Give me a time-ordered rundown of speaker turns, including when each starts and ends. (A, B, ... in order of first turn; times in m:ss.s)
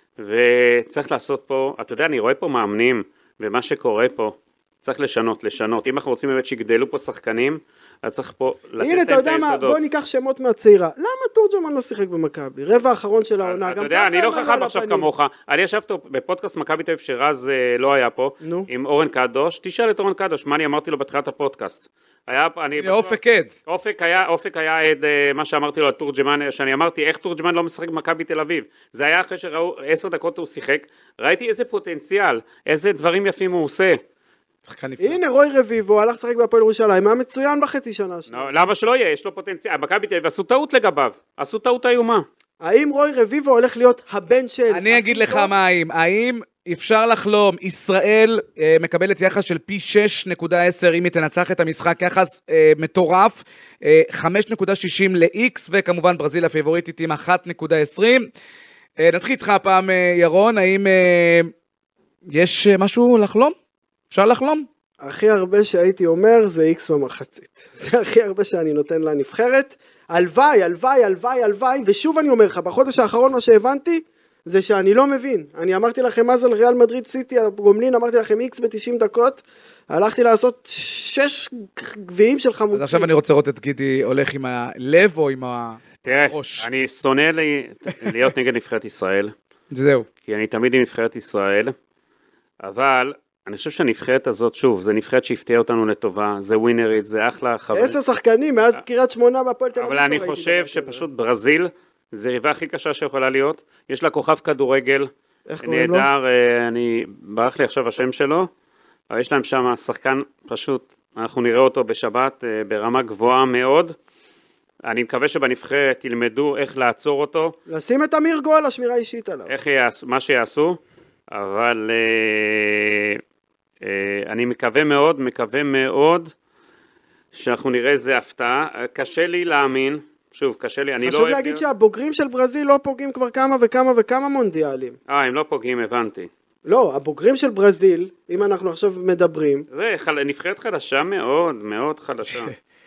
0:00.2-0:09.8 A
0:08.8-0:15.1 B
0:13.4-0:34.0 A
0:18.4-0:18.7 B
0:22.8-0:23.5 C
0:34.6-0:35.2 C
0:35.0-0:38.5 B
0:38.3-0:42.2 A
0:42.6-0:45.5 B
0:44.7-0:58.3 C
0:59.0-1:01.5 C
1:02.3-1:03.5 C
1:04.1-1:04.7 C
1:05.0-1:23.1 B
1:22.7-1:26.7 C
1:26.0-1:29.3 A
1:29.7-1:30.1 C
1:30.2-1:31.7 A
1:32.6-1:38.0 A
1:37.7-1:41.0 B
1:39.8-1:45.1 A
1:45.5-1:46.1 B
1:45.6-1:48.5 A
1:49.1-1:53.9 A
1:54.8-1:57.6 A
1:57.7-1:59.5 B
1:59.5-2:00.8 A
2:01.3-2:03.2 A
2:03.8-2:06.3 A
2:07.3-2:11.6 A
2:11.0-2:15.0 B
2:15.1-2:16.3 A
2:16.6-2:19.7 B
2:19.7-2:22.5 A
2:22.3-2:22.5 C